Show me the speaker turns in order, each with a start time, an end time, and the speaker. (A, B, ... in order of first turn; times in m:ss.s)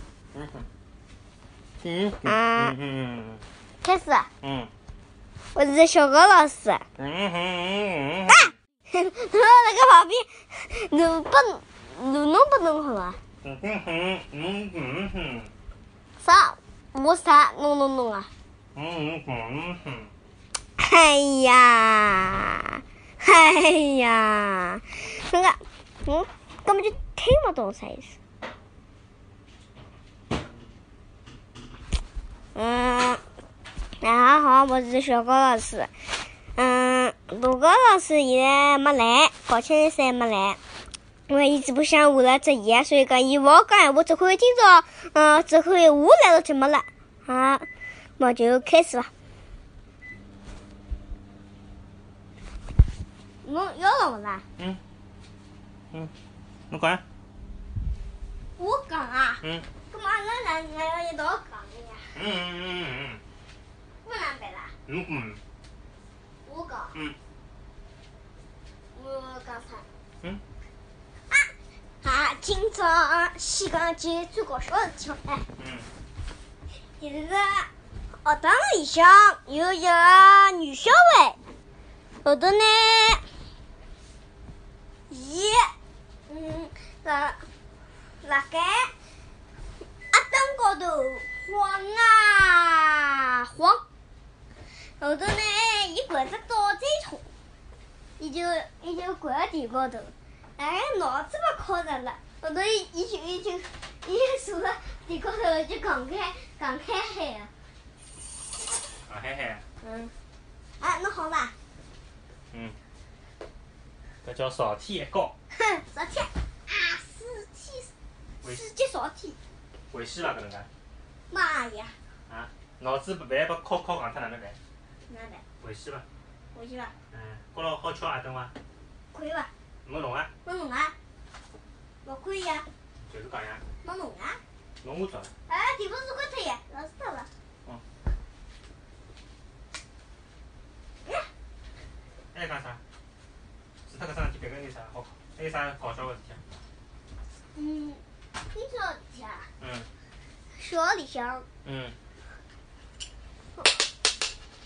0:00.3-0:00.7 A
0:01.8-0:03.4 A
0:02.2-0:02.8 B
0:03.8-0:04.3 B
0:04.4-0:04.7 A
0:05.5-0:06.8 B
0:07.0-0:08.5 A
0:08.3-0:13.2 B
0:13.4-0:15.5 A
0:16.2-0:18.3 B
0:18.7-0:20.1 A
0:20.8-0:28.2 B
0:32.5-0:33.2 B
0:34.0-0:35.9 B
0:36.6-0:40.6 B
0:41.3-0:47.6 B
0:48.2-0:49.1 B
0:53.4-0:54.4 B
0:56.7-0:57.0 A
0:58.6-1:02.2 B
0:59.4-0:59.7 A
1:02.1-1:03.2 A
1:04.0-1:04.7 B
1:04.9-1:05.4 A
1:06.4-1:07.0 B
1:08.9-1:09.8 B
1:11.3-1:15.4 B
1:15.6-1:15.9 A
1:17.0-1:17.7 B
1:18.2-1:21.4 B
1:22.2-1:23.2 B
1:25.1-1:25.7 B
1:26.3-1:27.4 B
1:28.2-1:28.9 B
1:30.1-1:33.8 B
1:35.0-1:37.3 B
1:38.2-1:47.5 B
1:49.0-1:49.6 A
1:49.8-1:50.1 B
1:50.8-1:51.5 B
1:52.5-1:52.8 A
1:54.2-1:55.3 A
1:55.5-1:57.9 B
1:58.4-1:59.4 B
1:59.9-2:00.7 A
2:01.3-2:02.0 B
2:02.3-2:04.6 A
2:05.1-2:05.4 B
2:05.6-2:06.0 A
2:06.5-2:06.9 B
2:07.1-2:08.5 A
2:09.1-2:09.5 B
2:09.8-2:10.3 A
2:10.4-2:10.9 B
2:12.0-2:12.7 B
2:13.0-2:13.6 A
2:13.8-2:14.4 B
2:14.8-2:15.3 A
2:15.5-2:17.3 B
2:22.3-2:22.8 A
2:23.9-2:26.4 A
2:27.5-2:29.5 B
2:29.6-2:29.9 A
2:30.6-2:31.4 B
2:31.6-2:32.0 A